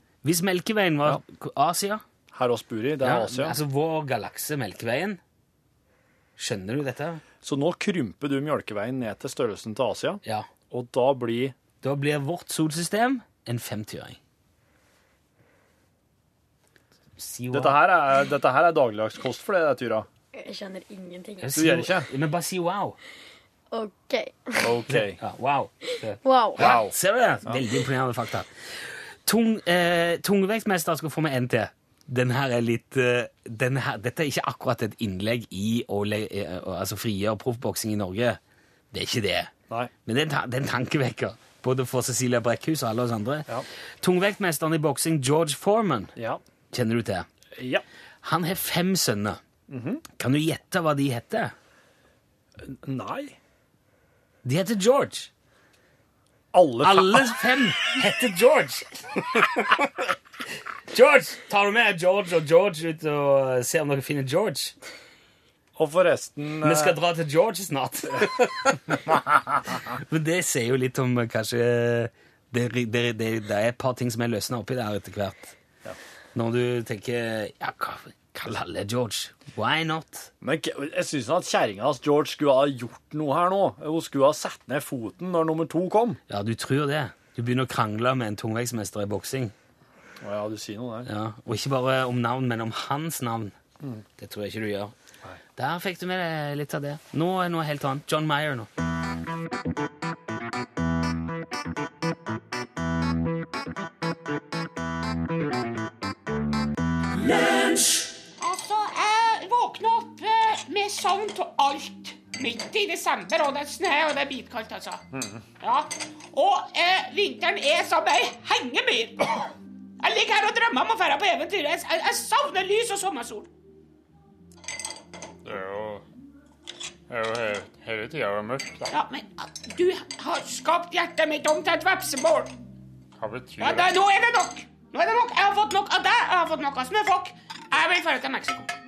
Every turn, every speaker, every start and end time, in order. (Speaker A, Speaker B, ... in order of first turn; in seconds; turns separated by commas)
Speaker A: 0.2-2.0, Speaker B: 2.3-3.6, Speaker A: 3.0-5.2, Speaker A: 6.4-7.2, Speaker B: 7.4-11.5, Speaker A: 11.8-14.2, Speaker A: 17.2-17.8, Speaker B: 17.5-20.1, Speaker C: 20.3-21.5, Speaker A: 21.4-23.0, Speaker B: 21.5-22.1, Speaker C: 23.7-24.7, Speaker B: 24.6-25.2, Speaker A: 24.9-28.5, Speaker C: 26.2-26.8, Speaker B: 26.6-26.9, Speaker A: 29.2-38.4, Speaker A: 38.9-39.5, Speaker A: 40.0-43.5, Speaker A: 44.0-46.1, Speaker A: 46.7-47.3, Speaker B: 47.5-47.8, Speaker A: 48.2-49.4, Speaker B: 49.7-50.0, Speaker A: 50.2-51.5, Speaker B: 52.6-53.4, Speaker A: 54.4-55.3, Speaker B: 56.5-57.4, Speaker A: 56.8-60.1, Speaker A: 60.9-64.7, Speaker B: 65.8-67.0, Speaker A: 66.6-75.5, Speaker A: 76.3-80.3, Speaker B: 80.4-86.2, Speaker A: 86.3-89.5, Speaker B: 90.2-91.1, Speaker A: 91.0-93.5, Speaker A: 94.2-94.9, Speaker A: 95.5-98.7, Speaker D: 107.9-115.0, Speaker B: 115.1-115.4, Speaker D: 115.6-119.3, Speaker D: 120.0-123.5, Speaker E: 125.4-126.0, Speaker E: 127.1-128.9, Speaker D: 128.9-132.5, Speaker E: 133.2-133.9, Speaker D: 133.6-138.7